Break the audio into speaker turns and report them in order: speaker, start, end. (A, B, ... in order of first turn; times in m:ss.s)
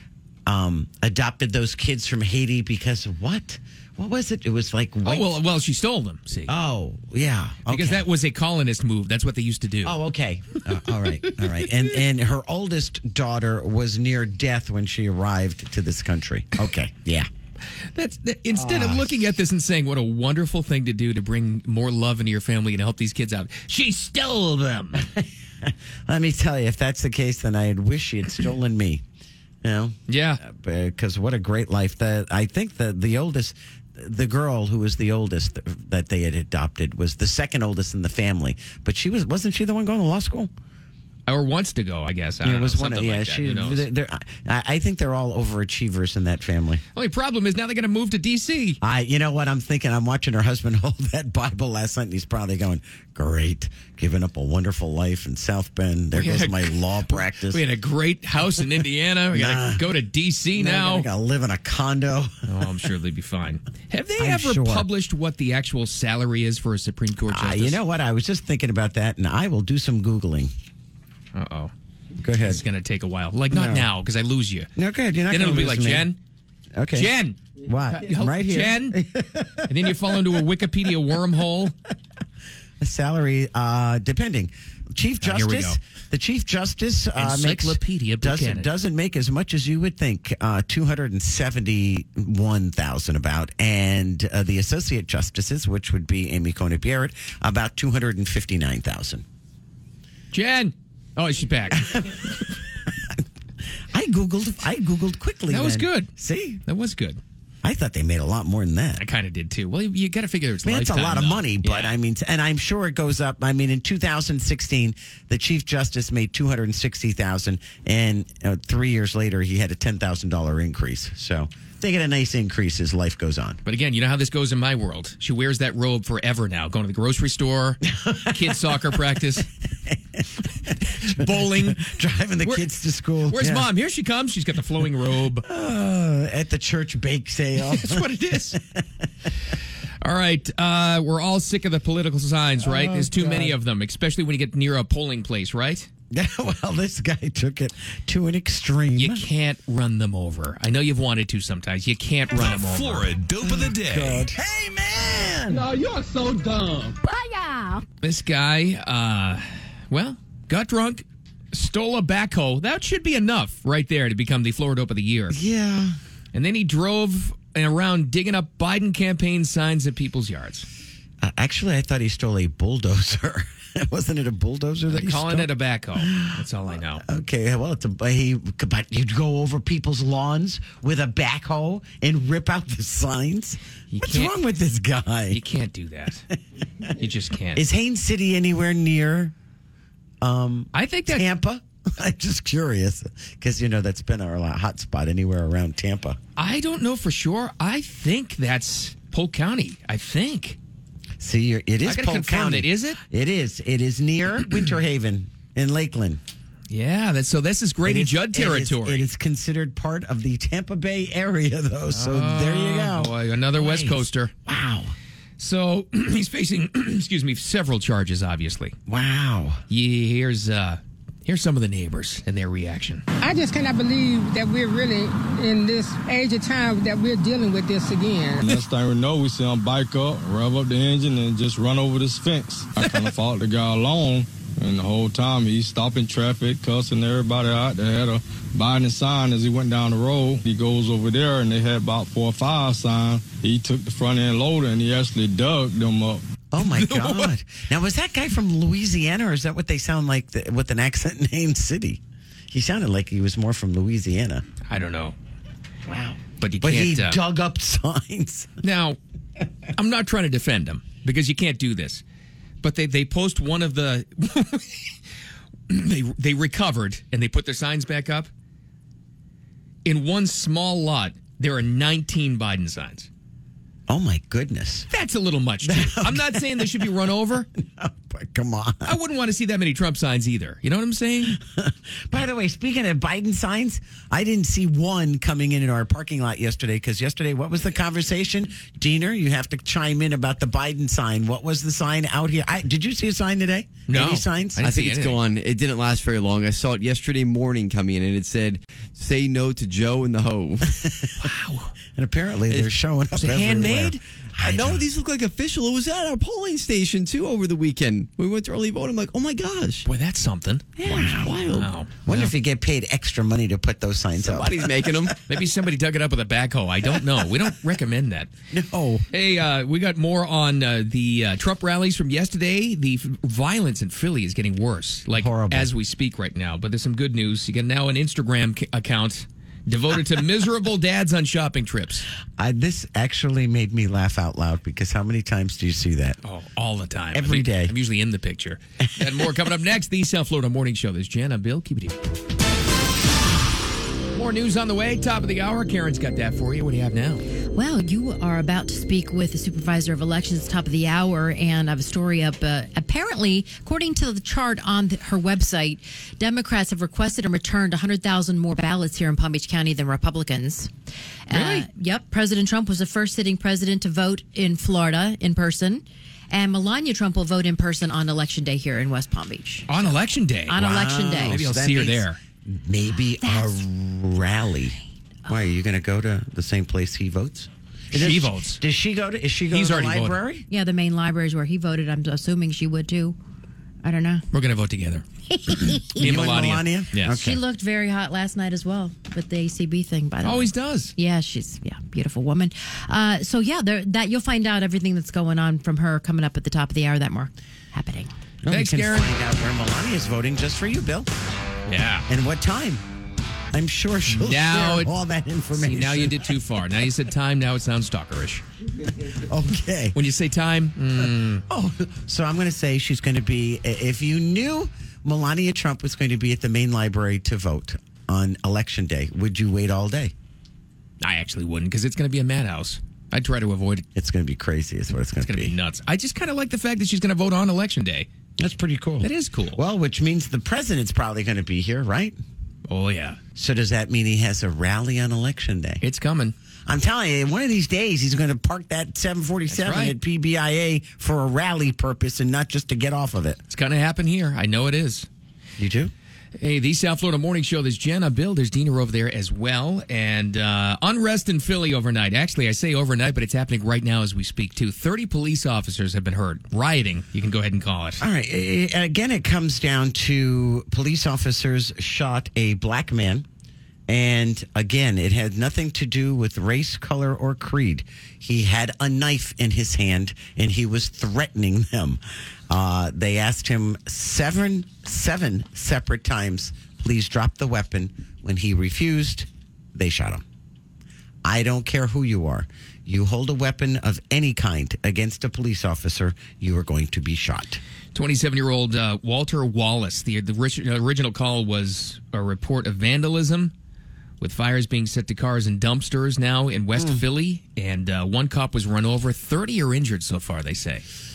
0:00.5-0:05.3 A
0:05.0-0:06.5 B
0:06.5-0:08.0 A
0:07.7-0:10.0 B
0:09.8-0:17.3 A
0:17.9-0:25.0 B
0:18.5-0:19.1 A
0:24.9-0:29.0 A
0:29.6-0:40.5 A
0:30.1-0:30.4 B
0:41.3-0:43.8 B
0:42.4-0:46.8 A
0:46.9-0:48.8 B
0:48.8-0:57.6 A
0:56.1-0:56.8 B
0:57.5-1:01.1 B
0:59.3-0:59.9 A
1:00.6-1:02.5 A
1:02.5-1:07.8 B
1:04.2-1:04.9 A
1:07.3-1:10.5 A
1:11.3-1:11.7 B
1:12.2-1:12.6 A
1:12.4-1:14.7 B
1:13.5-1:13.9 A
1:14.8-1:16.1 A
1:15.3-1:16.2 B
1:16.7-1:20.4 A
1:16.9-1:17.4 B
1:18.0-1:19.0 B
1:19.7-1:21.7 B
1:22.8-1:39.2 A
1:25.2-1:25.8 B
1:27.2-1:28.7 B
1:40.3-1:42.3 B
1:41.8-1:42.3 A
1:43.0-1:43.2 A
1:43.9-1:46.6 A
1:45.5-1:46.1 B
1:46.6-1:47.2 B
1:47.6-1:49.0 A
1:49.0-1:52.0 B
1:50.6-2:03.6 A
2:03.6-2:09.5 B
2:07.8-2:13.7 A
2:11.0-2:11.8 B
2:13.3-2:15.4 B
2:15.4-2:18.8 A
2:17.6-2:18.6 B
2:20.0-2:25.9 B
2:22.6-2:23.6 A
2:26.1-2:29.2 A
2:28.9-2:33.1 B
2:32.3-2:34.3 C
2:33.4-2:35.6 A
2:35.5-2:37.8 D
2:38.0-2:45.4 B
2:45.3-2:46.0 A
2:46.3-2:50.7 B
2:51.2-2:56.4 A
2:54.9-2:57.0 B
2:57.0-3:05.4 A
3:03.9-3:04.4 B
3:05.3-3:06.3 B
3:06.9-3:07.6 B
3:07.5-3:09.3 A
3:10.2-3:16.2 A
3:10.7-3:11.2 B
3:16.4-3:20.6 B
3:21.2-3:26.2 A
3:21.8-3:23.0 B
3:26.7-3:29.0 B
3:27.8-3:34.9 A
3:31.9-3:34.3 B
3:35.4-3:38.7 B
3:38.9-3:39.6 A
3:39.7-3:43.0 B
3:43.2-3:48.4 D
3:48.4-4:06.2 E
4:06.5-4:14.4 A
4:06.6-4:07.3 B
4:14.7-4:15.1 B
4:15.8-4:18.6 A
4:16.4-4:17.2 B
4:18.6-4:19.0 B
4:19.7-4:22.0 B
4:22.6-4:24.9 B
4:25.7-4:28.3 B
4:29.8-4:33.1 B
4:33.9-4:34.9 A
4:34.9-4:37.5 B
4:35.6-4:39.0 A
4:38.8-4:41.4 B
4:41.4-4:54.6 A
4:53.9-4:55.2 B
4:54.6-5:00.7 F
5:00.7-5:01.1 A
5:01.2-5:01.7 B
5:01.9-5:04.8 A
5:03.2-5:04.7 B
5:04.4-5:09.8 F
5:09.8-5:12.3 B
5:10.8-5:11.7 F
5:10.8-5:11.4 A
5:12.0-5:15.0 A
5:14.2-5:15.2 F
5:15.2-5:18.3 B
5:18.5-5:19.1 A
5:19.1-5:32.1 B
5:25.1-5:25.7 A
5:32.4-5:36.2 A
5:36.2-5:42.0 B
5:37.1-5:37.7 A
5:44.1-5:47.2 B
5:47.5-6:00.7 G
6:01.3-6:09.7 G
6:01.3-6:01.7 B
6:09.7-6:10.6 B
6:10.5-6:11.4 G
6:10.5-6:20.5 A
6:11.2-6:12.2 B
6:17.9-6:18.6 B
6:19.5-6:20.2 B
6:20.5-6:23.2 G
6:23.8-6:24.2 G
6:24.3-6:25.0 B
6:25.3-6:27.4 A
6:25.7-6:27.2 B
6:27.1-6:38.1 G
6:30.2-6:30.9 B
6:38.4-6:41.1 A
6:38.5-6:39.1 B
6:41.7-6:42.1 B
6:42.1-6:42.8 A
6:43.5-6:46.4 A
6:44.1-6:44.9 B
6:45.5-6:48.4 B
6:49.0-6:50.0 A
6:49.9-6:51.4 B
6:51.5-7:00.1 A
7:01.0-7:03.8 B
7:03.9-7:05.5 A
7:05.2-7:08.1 B
7:08.4-7:12.2 A
7:09.0-7:09.6 B
7:12.7-7:13.2 B
7:13.4-7:15.8 A
7:15.8-7:16.3 B
7:16.6-7:23.4 A
7:19.5-7:20.0 B
7:23.5-7:25.1 B
7:25.6-7:25.9 A
7:26.4-7:38.0 B
7:38.0-7:43.2 A
7:43.9-8:00.2 A
8:01.2-8:07.6 A
8:07.9-8:13.5 B
8:14.2-8:20.8 B
8:16.8-8:17.0 A